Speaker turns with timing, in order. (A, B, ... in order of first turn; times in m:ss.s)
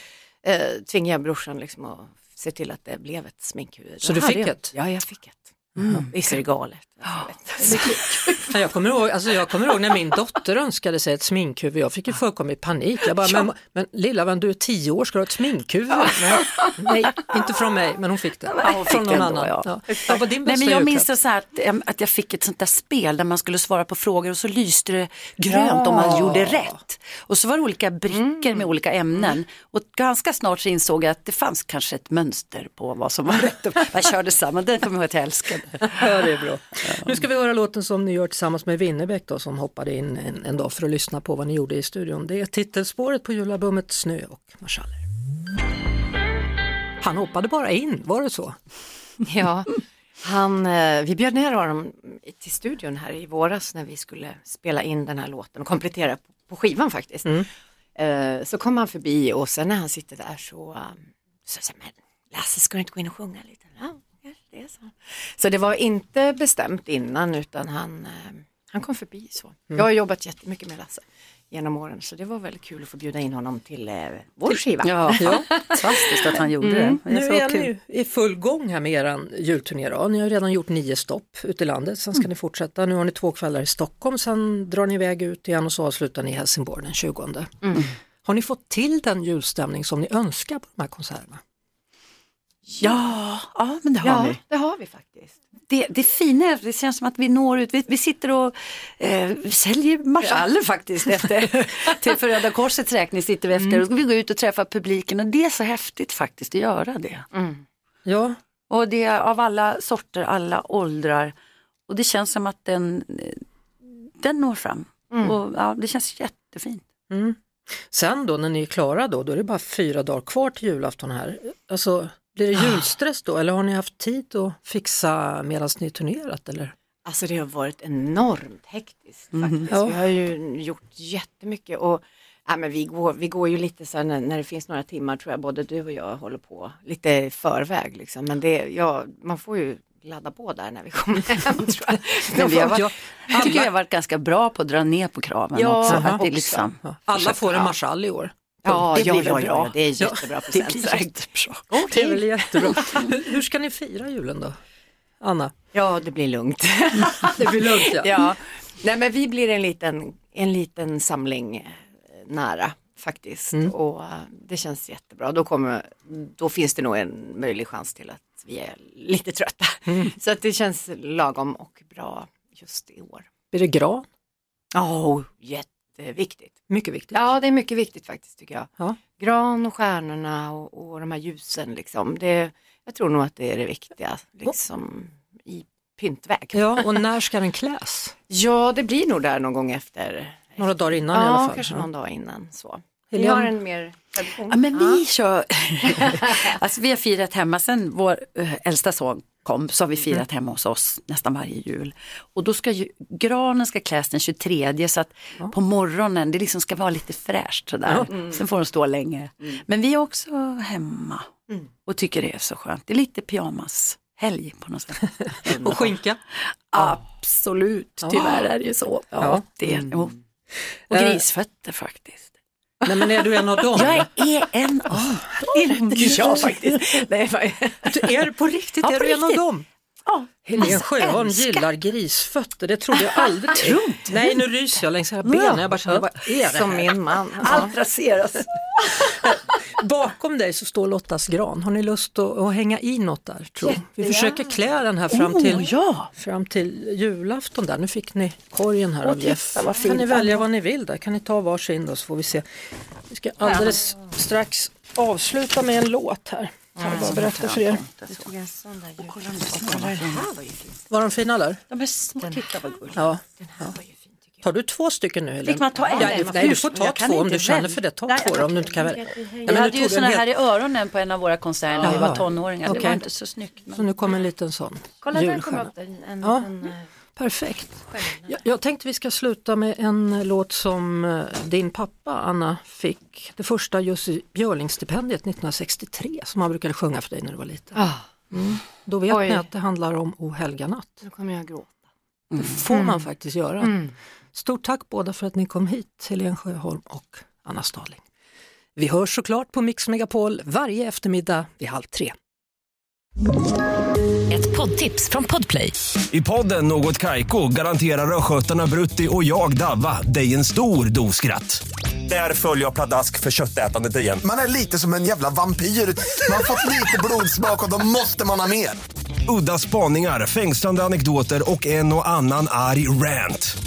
0:00.4-0:08.5 A
0:04.0-0:04.7 B
0:05.8-0:06.1 B
0:05.8-0:06.0 C
0:07.6-0:21.1 B
0:16.4-0:16.9 C
0:18.5-0:36.3 C
0:25.5-0:26.8 B
0:28.1-0:28.7 A
0:35.9-0:45.0 B
0:47.0-0:48.6 B
0:49.2-0:57.4 A
0:58.0-1:17.0 A
1:14.8-1:17.7 C
1:14.9-1:15.5 B
1:17.0-1:31.4 B
1:27.6-1:27.9 A
1:32.7-1:33.0 A
1:32.8-1:34.4 C
1:34.0-1:35.4 A
1:35.7-1:47.3 C
1:41.0-1:41.9 A
1:47.3-1:47.6 A
1:48.0-1:48.4 B
1:48.7-1:51.3 C
1:51.9-1:56.8 C
1:55.1-1:55.4 A
1:57.1-2:06.7 B
2:07.0-2:23.4 A
2:09.3-2:09.7 C
2:09.7-2:10.0 B
2:22.3-2:23.7 B
2:22.3-2:27.4 C
2:25.5-2:26.7 A
2:25.9-2:26.2 B
2:26.8-2:29.1 B
2:27.4-2:27.7 A
2:28.6-2:31.1 A
2:28.9-2:29.8 C
2:30.0-2:30.7 B
2:30.5-2:31.7 C
2:31.7-2:33.1 A
2:31.8-2:34.6 B
2:35.2-2:35.5 B
2:35.7-2:53.3 A
2:37.4-2:38.2 B
2:49.9-2:50.1 B
2:53.5-2:54.0 B
2:54.7-2:56.5 A
2:56.7-2:57.2 B
2:57.1-3:07.0 A
3:06.5-3:08.1 B
3:08.3-3:15.0 A
3:10.6-3:11.9 B
3:13.1-3:13.5 B
3:14.5-3:31.2 C
3:16.0-3:16.3 A
3:27.8-3:28.1 B
3:28.1-3:28.4 A
3:31.8-3:35.3 C
3:35.4-3:35.8 A
3:35.4-3:36.2 B
3:36.7-3:40.2 C
3:38.0-3:38.4 B
3:39.2-3:39.4 B
3:40.9-3:42.3 C
3:40.9-3:41.2 B
3:42.8-3:44.1 B
3:42.9-3:43.5 A
3:43.7-3:46.8 C
3:44.9-3:46.5 B
3:45.5-3:48.1 A
3:47.8-3:49.7 B
3:48.8-3:49.5 C
3:50.0-3:51.6 C
3:50.5-3:50.7 A
3:50.6-3:56.9 B
3:53.5-3:54.4 C
3:55.2-3:56.8 C
3:55.9-3:57.7 A
3:57.4-3:59.2 C
3:59.1-4:12.4 B
4:03.6-4:04.3 C
4:05.1-4:06.1 C
4:09.0-4:10.4 C
4:13.1-4:17.8 B
4:16.8-4:17.1 A
4:16.8-4:18.3 C
4:18.1-4:20.9 A
4:19.0-4:20.2 C
4:20.9-4:21.6 B
4:21.7-4:23.0 C
4:22.2-4:24.4 A
4:22.9-4:23.8 B
4:24.4-4:30.3 B
4:25.4-4:28.5 C
4:25.7-4:26.0 A
4:28.2-4:29.3 A
4:29.3-4:34.2 C
4:31.7-4:32.0 A
4:31.8-4:33.0 B
4:33.7-4:35.7 B
4:35.0-4:36.9 A
4:36.2-4:36.5 B
4:37.2-4:47.8 B
4:37.8-4:38.4 A
4:47.7-4:48.1 A
4:48.3-4:51.0 B
4:49.1-4:49.5 A
4:51.0-4:51.7 A
4:52.4-4:53.8 B
4:52.7-4:53.9 A
4:54.3-4:58.0 B
4:58.8-5:02.1 B
5:04.3-5:05.7 C
5:06.1-5:14.2 D
5:14.2-5:18.8 E
5:19.2-5:23.5 D